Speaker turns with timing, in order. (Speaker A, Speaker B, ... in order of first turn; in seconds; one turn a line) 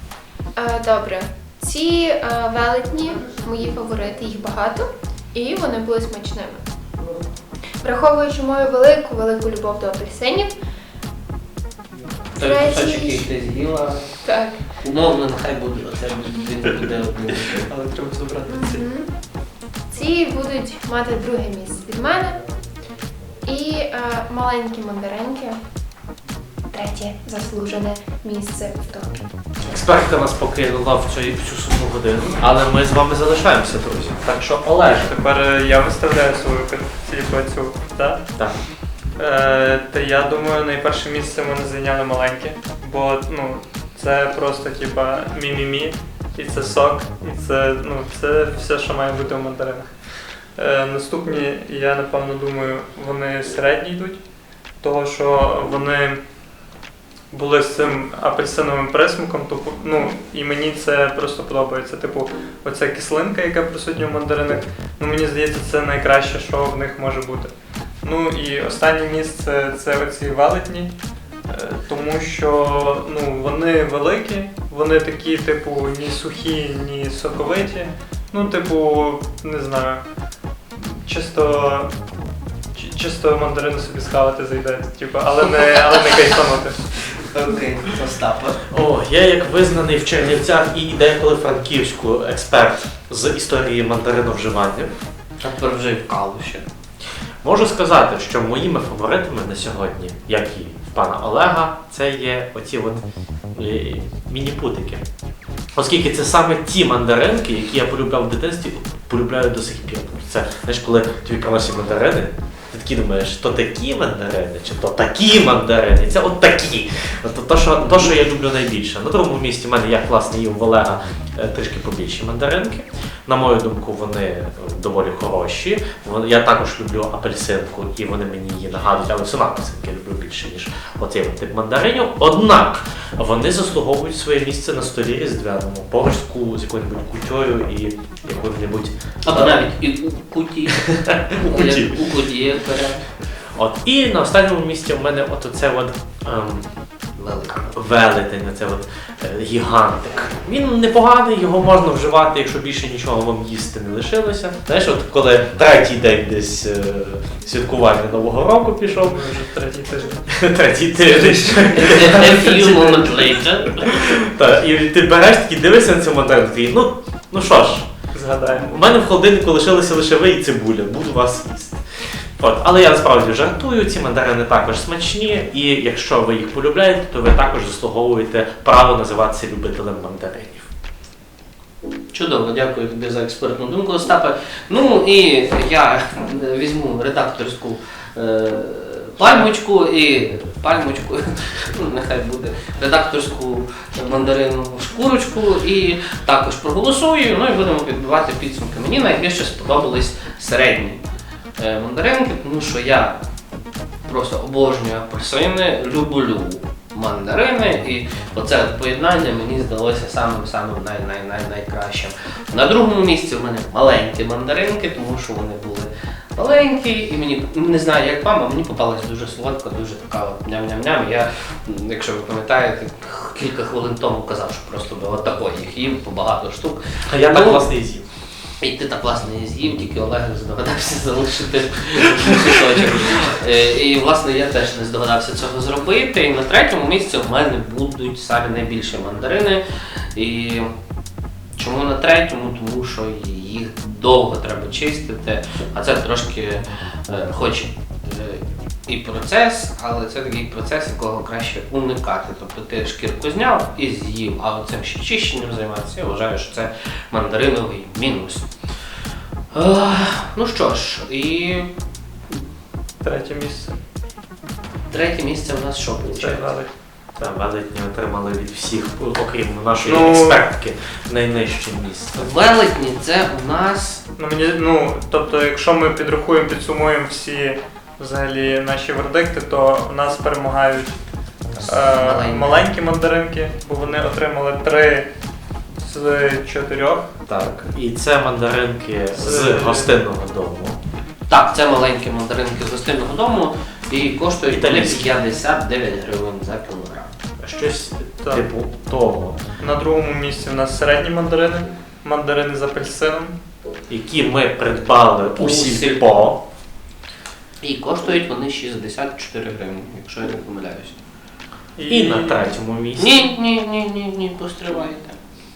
Speaker A: 0.5-6.6
Speaker A: 7.8-10.5
Speaker A: 12.4-13.2
Speaker B: 12.4-14.0
Speaker A: 14.2-14.6
Speaker B: 14.8-17.7
Speaker C: 17.7-18.8
Speaker A: 18.5-19.1
Speaker A: 19.9-22.4
Speaker A: 23.4-25.6
Speaker A: 26.7-29.2
Speaker D: 29.6-35.1
Speaker C: 34.8-38.3
Speaker C: 39.1-49.9
Speaker C: 50.5-54.2
Speaker C: 54.8-56.2
Speaker C: 57.3-70.9
Speaker C: 71.5-80.0
Speaker C: 80.8-82.0
Speaker C: 82.8-86.8
Speaker B: 86.1-86.4
Speaker B: 87.1-88.6
Speaker D: 88.7-94.9
Speaker B: 95.4-96.6
Speaker D: 97.4-105.0
Speaker D: 105.8-139.7
Speaker B: 139.2-143.0
Speaker D: 140.7-142.1
Speaker D: 143.4-146.7
Speaker B: 147.2-147.8
Speaker D: 147.7-159.2
Speaker C: 158.9-160.5
Speaker D: 160.3-167.9
Speaker C: 161.0-161.8
Speaker B: 161.8-164.0
Speaker C: 168.1-168.8
Speaker D: 168.5-171.8
Speaker D: 172.4-180.7
Speaker B: 182.1-201.0
Speaker B: 201.6-203.2
Speaker B: 204.1-227.7
Speaker D: 227.1-228.0
Speaker B: 228.6-239.6
Speaker B: 240.1-240.7
Speaker B: 241.6-258.4
Speaker B: 259.5-261.7
Speaker C: 263.0-263.8
Speaker B: 264.9-266.5
Speaker C: 266.1-266.7
Speaker D: 267.2-272.2
Speaker C: 269.8-270.4
Speaker B: 272.1-274.0
Speaker C: 274.2-280.9
Speaker B: 281.5-282.6
Speaker C: 281.6-285.1
Speaker C: 285.8-287.1
Speaker D: 287.3-290.8
Speaker C: 289.1-289.9
Speaker B: 291.3-297.1
Speaker D: 294.5-295.1
Speaker D: 297.4-299.4
Speaker C: 299.6-303.4
Speaker D: 303.9-306.4
Speaker B: 305.4-306.1
Speaker B: 307.6-311.0
Speaker C: 311.8-312.4
Speaker D: 311.9-313.1
Speaker B: 313.0-315.2